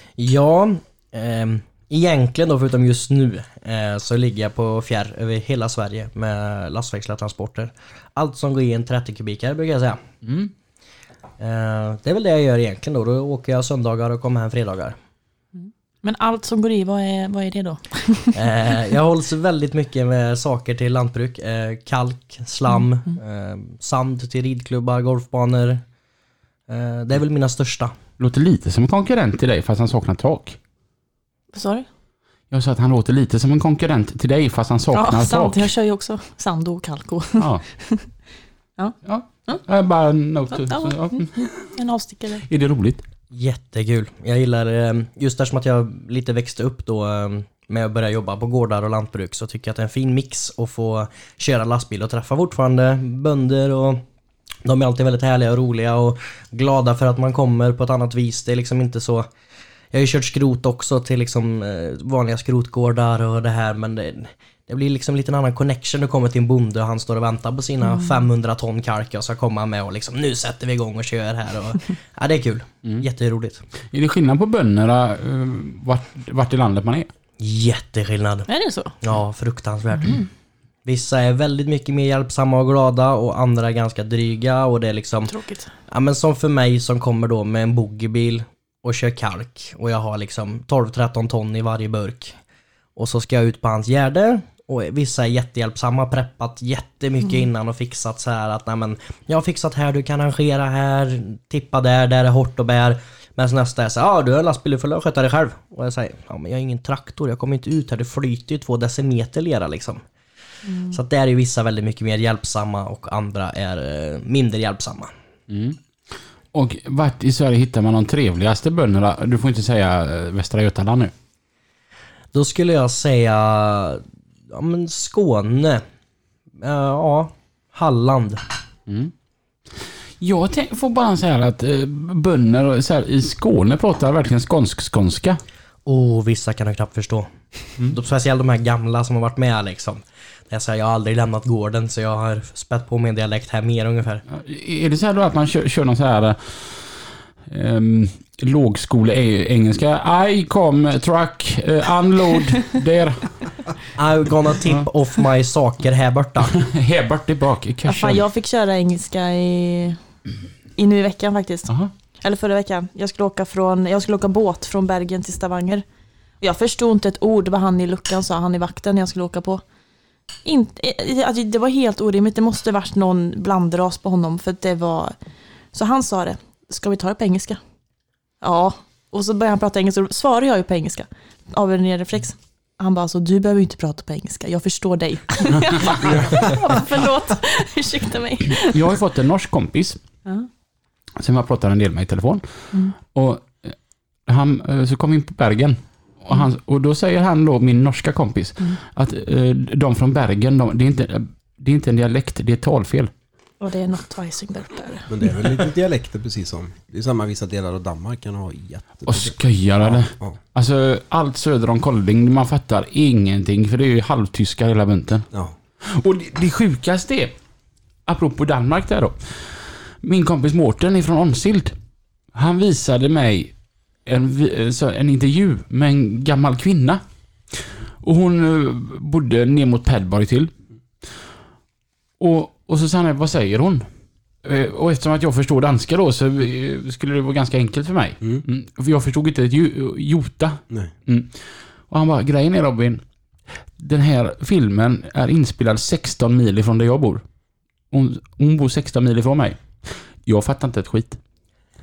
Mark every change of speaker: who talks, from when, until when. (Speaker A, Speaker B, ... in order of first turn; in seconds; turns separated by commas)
Speaker A: 0.2-10.0, Speaker B: 10.2-10.5, Speaker A: 11.4-14.9, Speaker C: 15.6-18.4, Speaker A: 18.3-25.8, Speaker A: 26.7-27.9, Speaker B: 28.2-30.6, Speaker C: 31.5-31.9, Speaker B: 32.5-35.7, Speaker C: 34.9-38.1, Speaker B: 37.4-37.6, Speaker B: 39.0-41.7, Speaker C: 40.5-42.4, Speaker B: 42.5-43.0, Speaker A: 43.3-54.0, Speaker A: 54.6-59.3, Speaker A: 59.9-73.6, Speaker B: 73.9-77.1, Speaker A: 77.4-78.5, Speaker C: 78.5-78.9, Speaker A: 79.0-80.2, Speaker A: 80.8-85.3, Speaker C: 85.3-85.7, Speaker A: 85.9-92.3, Speaker A: 93.0-110.0, Speaker C: 110.6-111.0, Speaker A: 110.9-115.1, Speaker B: 115.5-115.8, Speaker B: 116.5-121.1, Speaker A: 122.3-125.8, Speaker A: 126.6-128.4, Speaker B: 130.2-135.4, Speaker A: 135.8-137.3, Speaker A: 137.8-144.2, Speaker B: 144.3-153.3, Speaker A: 153.9-156.5, Speaker B: 156.6-158.2, Speaker C: 157.9-160.0, Speaker C: 160.7-165.8, Speaker C: 166.4-169.6, Speaker C: 170.4-175.2, Speaker C: 175.7-177.6, Speaker C: 178.4-188.8, Speaker B: 188.6-190.0, Speaker B: 191.2-192.4, Speaker B: 193.1-193.7, Speaker B: 194.2-203.1, Speaker C: 203.6-205.1, Speaker D: 205.1-210.4, Speaker B: 209.1-215.3, Speaker B: 215.8-217.3, Speaker B: 218.1-221.7, Speaker B: 222.3-223.5, Speaker B: 224.1-227.0, Speaker B: 228.0-230.5, Speaker B: 232.2-233.8, Speaker B: 234.4-243.0, Speaker B: 243.8-247.2, Speaker B: 247.9-251.2